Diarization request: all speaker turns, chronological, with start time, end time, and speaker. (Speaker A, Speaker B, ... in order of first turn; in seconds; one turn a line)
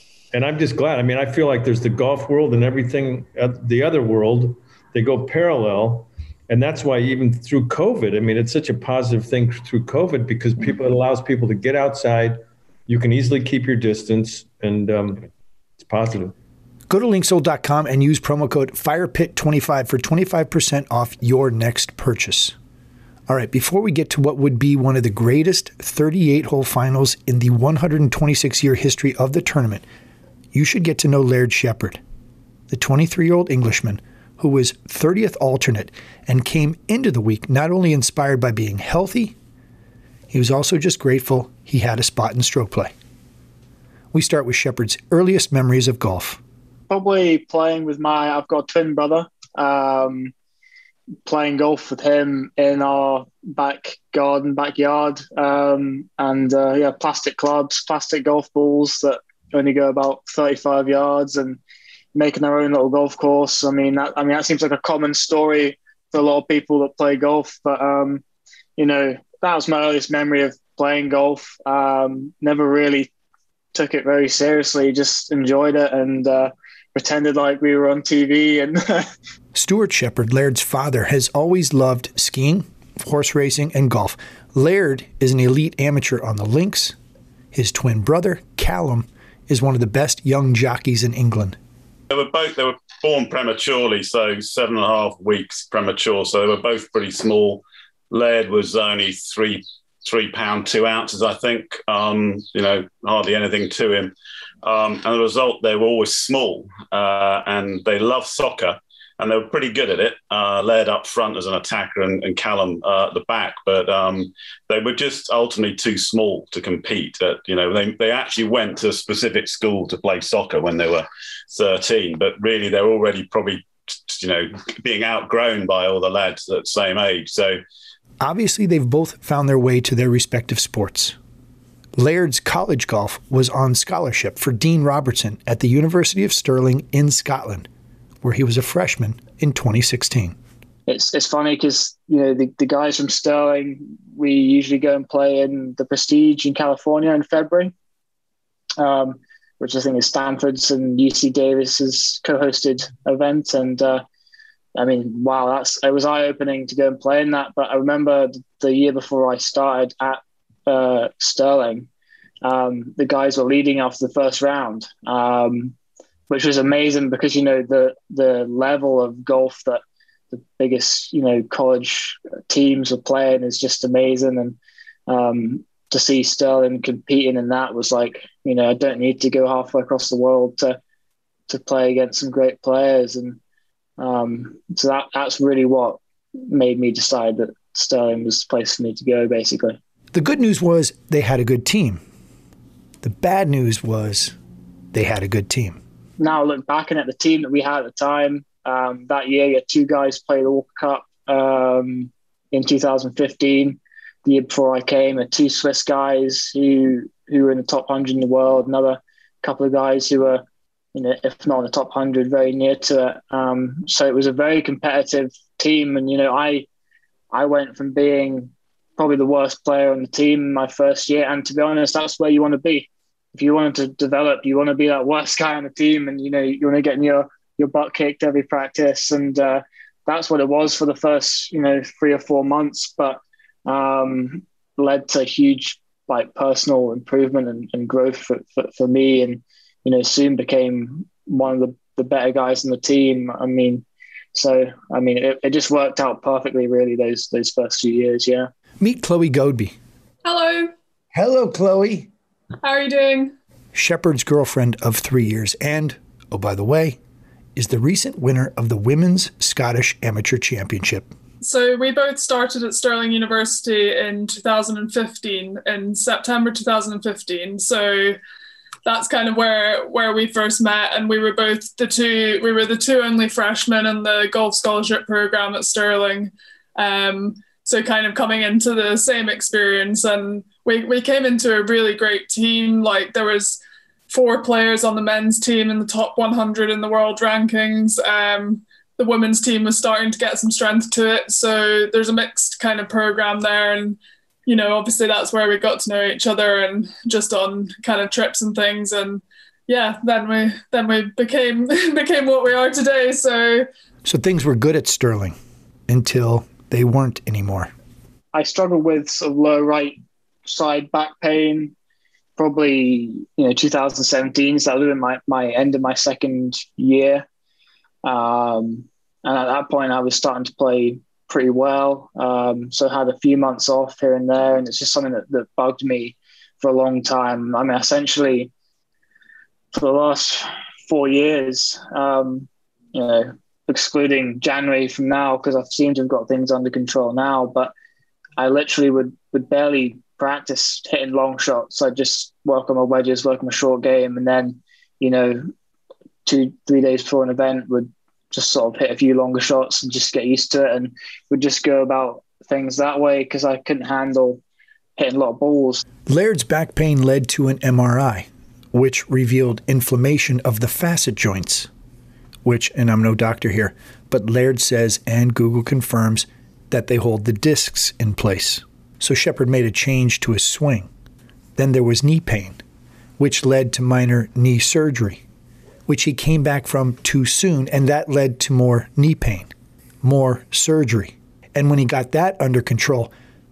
Speaker A: 0.3-16.4
Speaker B: 16.9-22.5
Speaker B: 23.3-29.8
Speaker B: 30.5-32.0
Speaker B: 32.7-39.3
Speaker B: 40.3-42.9
Speaker B: 44.1-46.4
Speaker C: 46.9-50.3
Speaker C: 51.2-61.6
Speaker C: 62.1-68.2
Speaker C: 68.8-73.1
Speaker C: 73.7-79.1
Speaker B: 79.5-86.9
Speaker B: 87.5-91.6
Speaker D: 92.1-127.6
Speaker B: 128.2-131.2
Speaker B: 131.9-137.7
Speaker B: 138.2-140.3
Speaker C: 140.9-147.7
Speaker C: 148.8-154.0
Speaker C: 154.8-161.9
Speaker C: 162.4-165.7
Speaker C: 166.3-169.8
Speaker C: 170.3-180.8
Speaker C: 181.5-183.4
Speaker C: 184.0-189.8
Speaker B: 190.1-192.0
Speaker B: 193.0-194.3
Speaker B: 194.9-195.8
Speaker C: 196.2-210.4
Speaker C: 210.9-216.7
Speaker C: 217.3-243.8
Speaker C: 244.3-248.5
Speaker B: 248.8-249.8
Speaker E: 250.2-250.7
Speaker B: 251.1-252.1
Speaker E: 252.6-253.3
Speaker B: 253.7-257.0
Speaker B: 257.6-261.1
Speaker E: 261.4-268.2
Speaker E: 268.9-303.7
Speaker B: 304.0-305.4
Speaker B: 305.9-307.7
Speaker C: 308.3-311.7
Speaker C: 312.4-317.2
Speaker C: 318.0-328.5
Speaker C: 329.7-337.7
Speaker C: 338.4-345.5
Speaker C: 346.2-354.4
Speaker C: 355.0-355.8
Speaker B: 356.1-361.7
Speaker B: 362.4-370.9
Speaker B: 371.6-372.6
Speaker B: 373.2-375.2
Speaker B: 375.9-379.5
Speaker B: 380.0-383.1